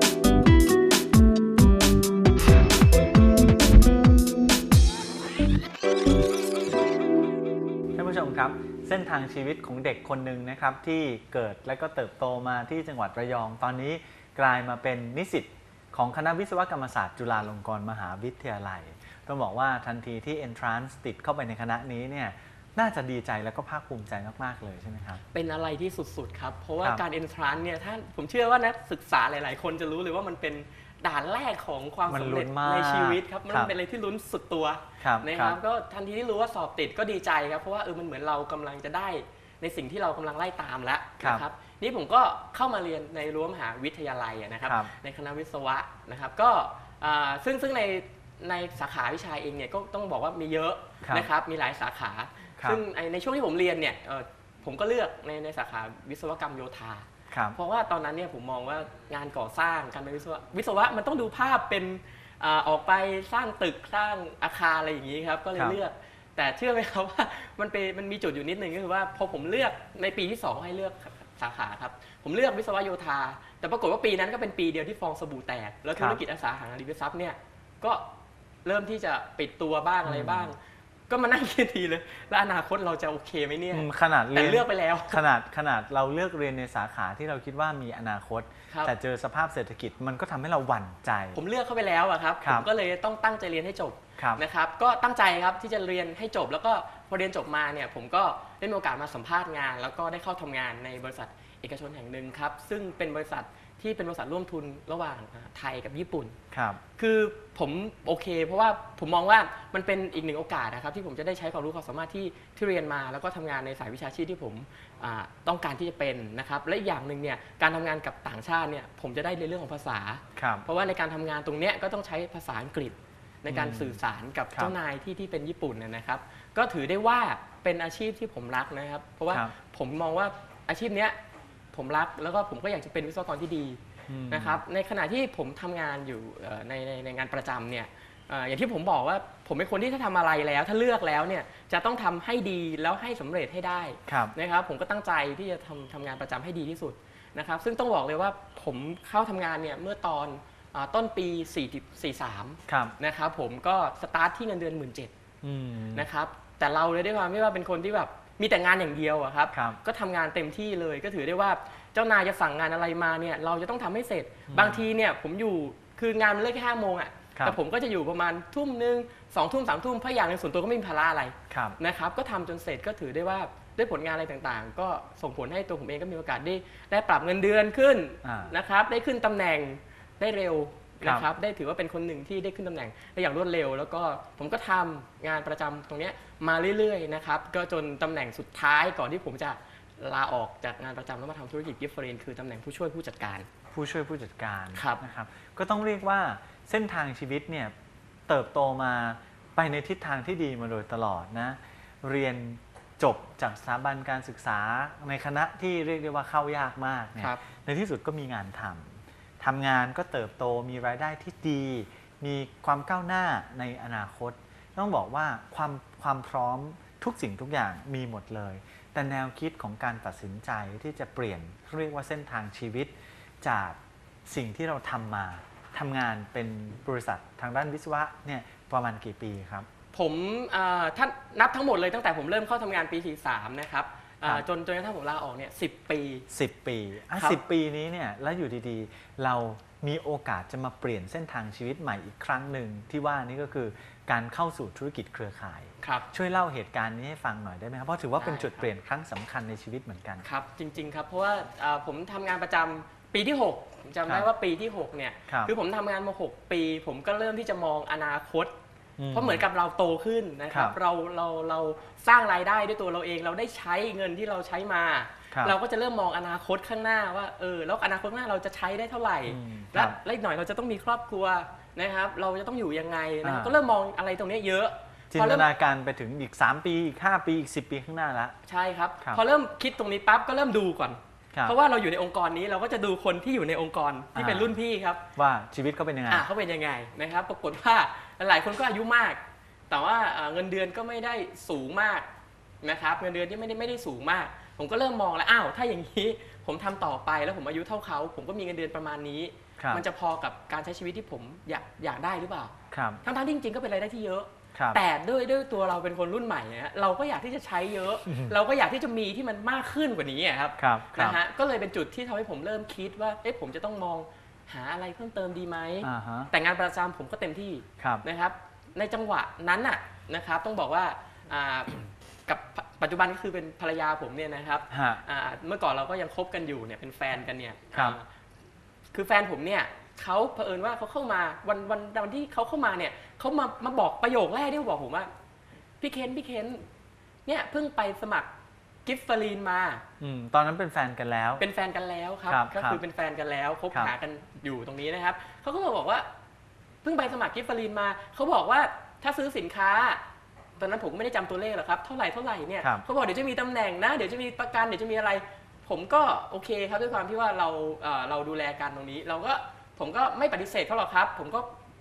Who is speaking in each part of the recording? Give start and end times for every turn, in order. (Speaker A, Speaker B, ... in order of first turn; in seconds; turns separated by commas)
Speaker A: 7.9-25.2, Speaker B: 25.3-78.0, Speaker A: 32.1-33.7, Speaker A: 35.0-35.6, Speaker A: 44.6-44.9, Speaker A: 57.3-57.6, Speaker A: 76.0-76.2, Speaker B: 78.6-80.6, Speaker A: 80.0-80.5, Speaker B: 81.1-85.2, Speaker A: 83.7-91.4, Speaker B: 91.3-106.3, Speaker A: 92.4-92.7, Speaker A: 106.5-106.8, Speaker B: 107.0-131.2, Speaker A: 120.3-120.6, Speaker A: 123.5-124.0, Speaker B: 131.7-133.8, Speaker A: 134.1-134.6, Speaker B: 134.3-155.1, Speaker A: 144.1-144.3, Speaker A: 152.7-152.9, Speaker A: 155.4-156.1, Speaker B: 155.9-193.5, Speaker A: 159.5-159.8, Speaker A: 164.5-164.8, Speaker A: 171.5-171.8, Speaker A: 178.2-178.5, Speaker A: 193.7-197.7, Speaker B: 194.7-195.0, Speaker A: 198.3-229.7, Speaker B: 229.9-236.3, Speaker A: 236.3-250.2, Speaker B: 245.8-246.1, Speaker B: 248.2-248.7, Speaker B: 250.2-258.5, Speaker A: 255.3-255.5, Speaker A: 259.0-259.4, Speaker B: 259.1-275.5, Speaker A: 260.5-260.8, Speaker A: 269.2-270.0, Speaker A: 273.2-273.6, Speaker A: 275.1-278.3, Speaker B: 278.4-285.0, Speaker A: 284.1-284.6, Speaker A: 285.1-286.2, Speaker B: 286.1-289.2, Speaker B: 289.7-292.1, Speaker B: 292.6-328.0, Speaker A: 299.6-299.8, Speaker A: 302.7-303.0, Speaker A: 304.5-304.8, Speaker A: 308.1-308.3, Speaker A: 310.6-311.2, Speaker A: 315.8-316.3, Speaker A: 317.8-318.0, Speaker A: 324.7-325.0, Speaker B: 328.9-335.1, Speaker B: 335.8-336.6, Speaker B: 337.2-338.3, Speaker B: 338.9-339.8, Speaker A: 340.0-341.4, Speaker B: 341.4-346.1, Speaker A: 342.3-342.8, Speaker B: 346.8-350.0, Speaker B: 350.6-361.5